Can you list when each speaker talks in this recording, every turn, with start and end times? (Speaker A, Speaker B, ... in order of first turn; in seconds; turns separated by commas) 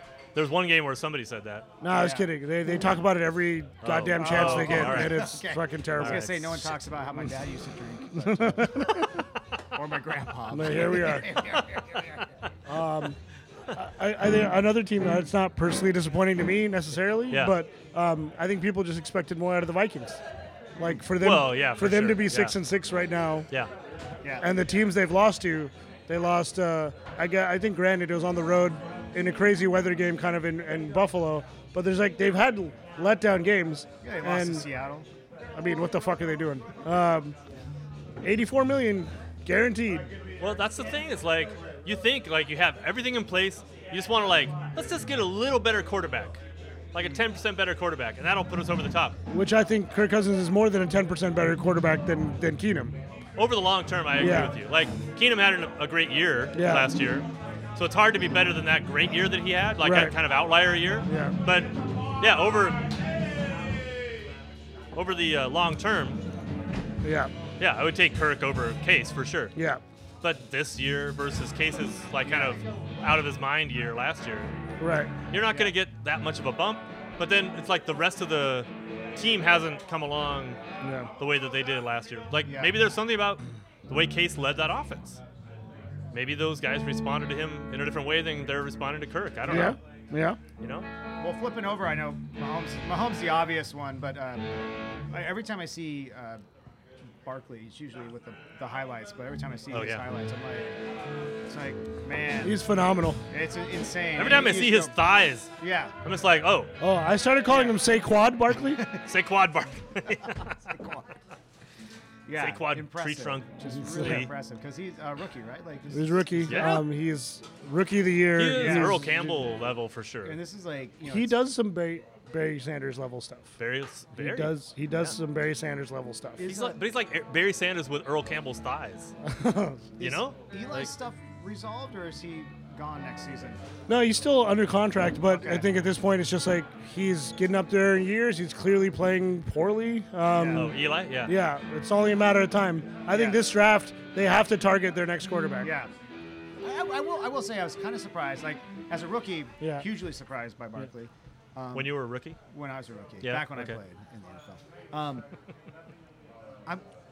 Speaker A: 0.3-1.7, Speaker B: 1.8-6.7, Speaker C: 1.9-2.3, Speaker A: 3.8-5.4, Speaker C: 4.2-9.1, Speaker A: 6.0-6.5, Speaker B: 8.2-9.2, Speaker C: 9.7-12.2, Speaker B: 10.5-11.3, Speaker A: 11.4-12.2, Speaker B: 12.7-13.2, Speaker B: 13.7-20.2, Speaker A: 17.3-17.6, Speaker B: 20.8-23.5, Speaker A: 21.2-22.6, Speaker C: 24.2-24.5, Speaker B: 24.4-34.7, Speaker C: 34.0-35.1, Speaker B: 35.5-37.4, Speaker B: 38.2-40.1, Speaker A: 40.4-49.2, Speaker B: 49.3-53.0, Speaker A: 53.4-62.9, Speaker B: 54.2-54.6, Speaker B: 56.5-56.9, Speaker B: 59.8-60.1, Speaker B: 61.1-61.4, Speaker A: 65.0-66.2, Speaker B: 67.0-67.3, Speaker A: 67.6-69.5, Speaker B: 69.6-69.8, Speaker A: 70.2-74.5, Speaker C: 72.2-72.6, Speaker B: 74.8-75.1, Speaker A: 75.3-80.6, Speaker C: 75.4-75.8, Speaker B: 80.8-81.1, Speaker A: 81.2-85.2, Speaker C: 82.4-82.7, Speaker A: 86.1-89.8, Speaker B: 89.5-90.4, Speaker A: 90.6-90.9, Speaker C: 91.2-94.5, Speaker C: 95.1-96.4, Speaker C: 97.2-100.8, Speaker A: 99.7-100.0, Speaker C: 101.5-102.6, Speaker B: 102.4-103.2, Speaker C: 103.3-105.0, Speaker A: 104.2-106.7, Speaker C: 105.6-106.0, Speaker B: 106.8-108.8, Speaker C: 107.5-107.8, Speaker C: 108.6-109.0, Speaker A: 109.0-110.5, Speaker C: 110.3-111.2, Speaker C: 112.3-116.7, Speaker A: 112.4-114.3, Speaker B: 113.7-114.3, Speaker B: 115.9-119.4, Speaker A: 116.5-116.9, Speaker A: 118.4-120.4, Speaker C: 118.5-119.2, Speaker C: 120.2-121.4, Speaker B: 121.1-123.6, Speaker A: 123.6-125.2, Speaker B: 124.2-126.5, Speaker C: 126.4-126.8, Speaker A: 126.4-129.1, Speaker B: 129.2-129.9, Speaker C: 130.0-133.6, Speaker A: 130.0-130.9, Speaker B: 133.9-145.7, Speaker C: 135.3-135.7, Speaker C: 140.3-140.7, Speaker A: 140.5-141.3, Speaker C: 143.1-143.4, Speaker C: 145.6-145.9, Speaker C: 146.6-155.3, Speaker B: 149.6-149.9, Speaker A: 151.7-152.4, Speaker A: 153.2-153.8